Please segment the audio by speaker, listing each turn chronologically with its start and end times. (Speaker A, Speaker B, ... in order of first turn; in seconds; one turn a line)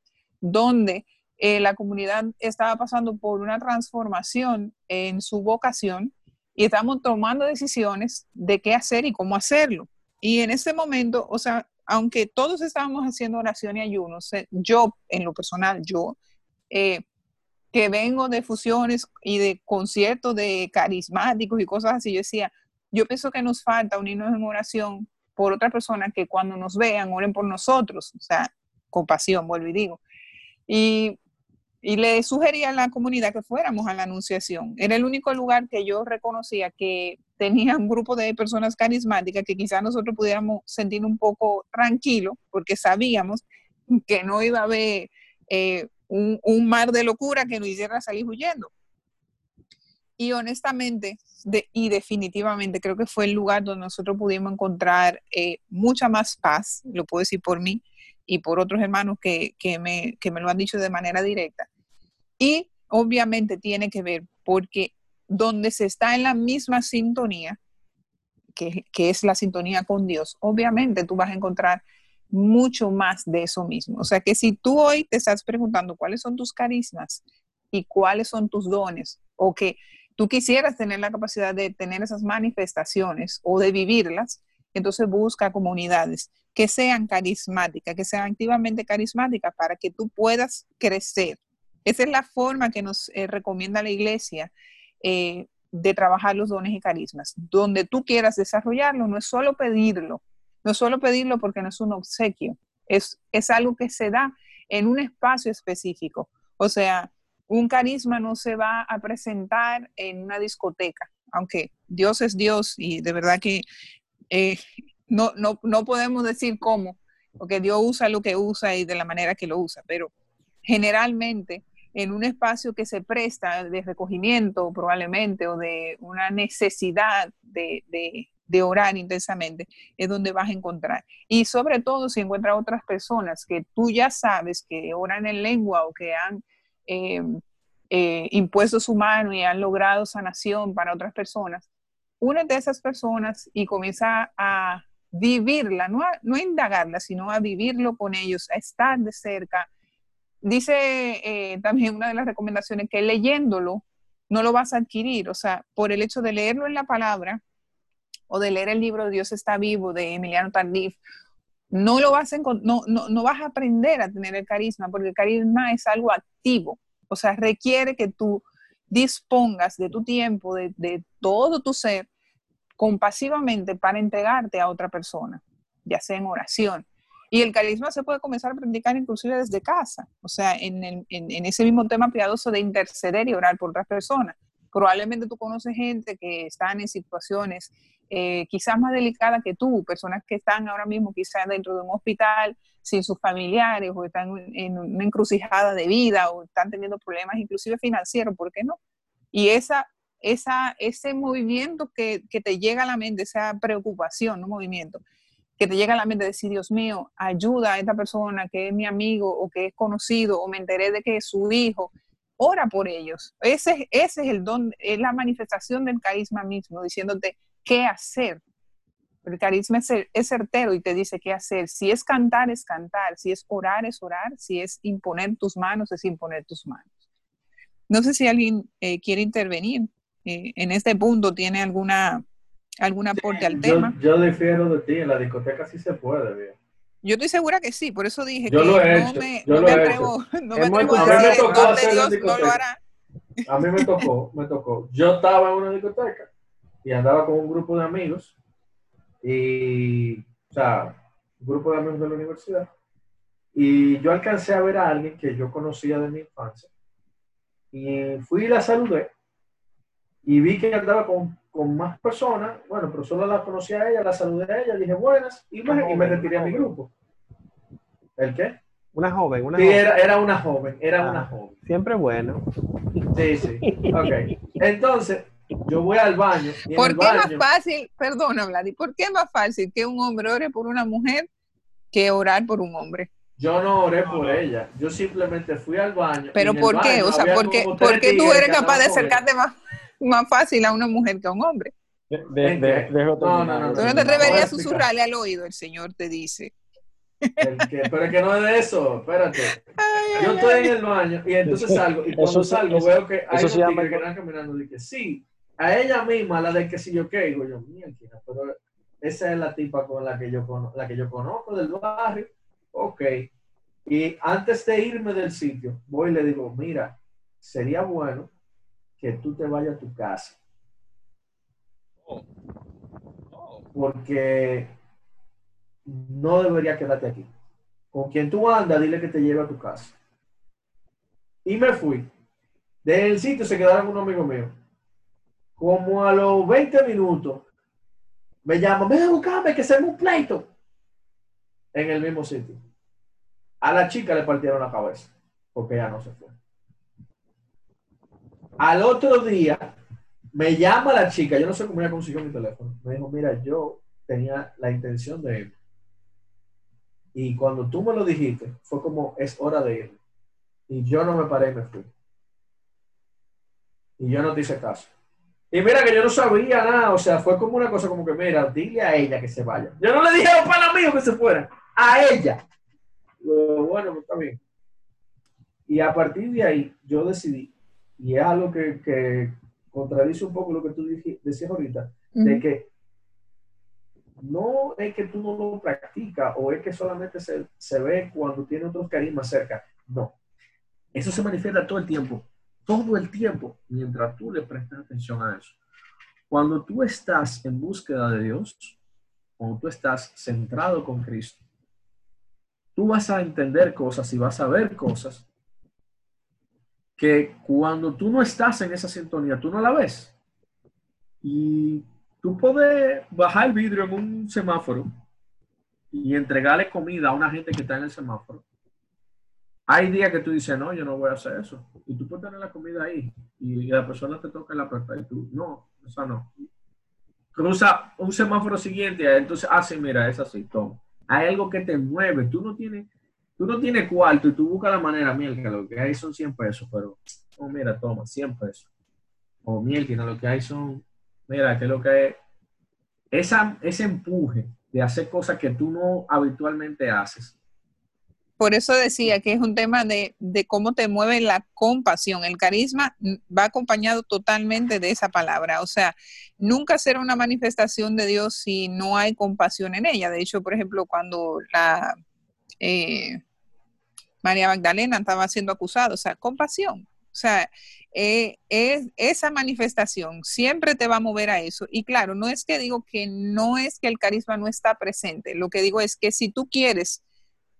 Speaker A: 0.4-16.2
Speaker A: 16.7-17.0
Speaker A: 17.7-30.0
Speaker A: 30.7-31.2
Speaker A: 31.8-48.7
Speaker A: 50.2-61.7
Speaker A: 62.4-67.6
Speaker A: 68.6-113.7
Speaker A: 114.3-120.1
Speaker A: 120.7-137.3
Speaker A: 137.9-141.7
Speaker A: 142.2-149.7
Speaker A: 150.4-157.4
Speaker A: 158.3-161.0
Speaker A: 161.7-172.1
Speaker A: 172.8-198.8
Speaker A: 199.3-205.0
Speaker A: 205.6-218.4
Speaker A: 219.2-226.9
Speaker A: 227.9-232.2
Speaker A: 232.8-233.9
Speaker B: 233.2-236.6
Speaker A: 237.0-242.8
Speaker B: 238.5-240.1
Speaker C: 240.6-241.8
Speaker B: 240.8-242.6
Speaker B: 243.5-246.3
Speaker A: 243.7-244.0
Speaker B: 246.8-248.3
Speaker B: 249.2-252.7
Speaker B: 253.5-256.7
Speaker B: 257.7-259.1
Speaker B: 260.2-266.9
Speaker C: 265.6-266.7
Speaker B: 268.2-268.6
Speaker C: 268.9-269.8
Speaker B: 269.6-271.6
Speaker C: 271.0-272.4
Speaker B: 273.1-277.4
Speaker C: 273.6-274.6
Speaker A: 276.7-281.3
Speaker A: 281.9-283.1
Speaker B: 283.4-289.2
Speaker C: 284.0-284.4
Speaker A: 286.4-291.7
Speaker D: 292.1-294.5
Speaker B: 292.4-294.9
Speaker A: 293.8-296.5
Speaker B: 297.4-299.6
Speaker A: 299.8-300.7
Speaker B: 300.2-313.3
Speaker D: 301.4-304.1
Speaker B: 313.9-318.3
Speaker B: 319.0-320.4
Speaker C: 323.3-323.7
Speaker B: 323.7-324.8
Speaker B: 325.9-327.3
Speaker B: 327.9-329.9
Speaker B: 331.4-332.1
Speaker B: 332.8-334.6
Speaker B: 335.6-337.4
Speaker B: 338.4-340.5
Speaker B: 341.7-342.6
Speaker B: 343.6-346.4
Speaker B: 348.6-349.8
Speaker B: 350.3-355.6
Speaker B: 357.1-360.0
Speaker B: 360.7-361.9
Speaker B: 364.0-364.9
Speaker B: 365.5-372.4
Speaker B: 373.2-374.4
Speaker B: 375.7-382.7
Speaker A: 382.1-382.4
Speaker B: 384.2-390.1
Speaker B: 390.9-395.6
Speaker B: 396.3-398.8
Speaker B: 399.4-401.4
Speaker B: 402.8-405.2
Speaker B: 407.0-410.1
Speaker B: 411.2-414.9
Speaker B: 415.9-418.4
Speaker B: 419.7-426.3
Speaker B: 427.4-438.7
Speaker B: 439.4-442.2
Speaker B: 443.1-447.4
Speaker A: 448.4-462.0
Speaker A: 462.6-463.2
Speaker A: 464.2-477.0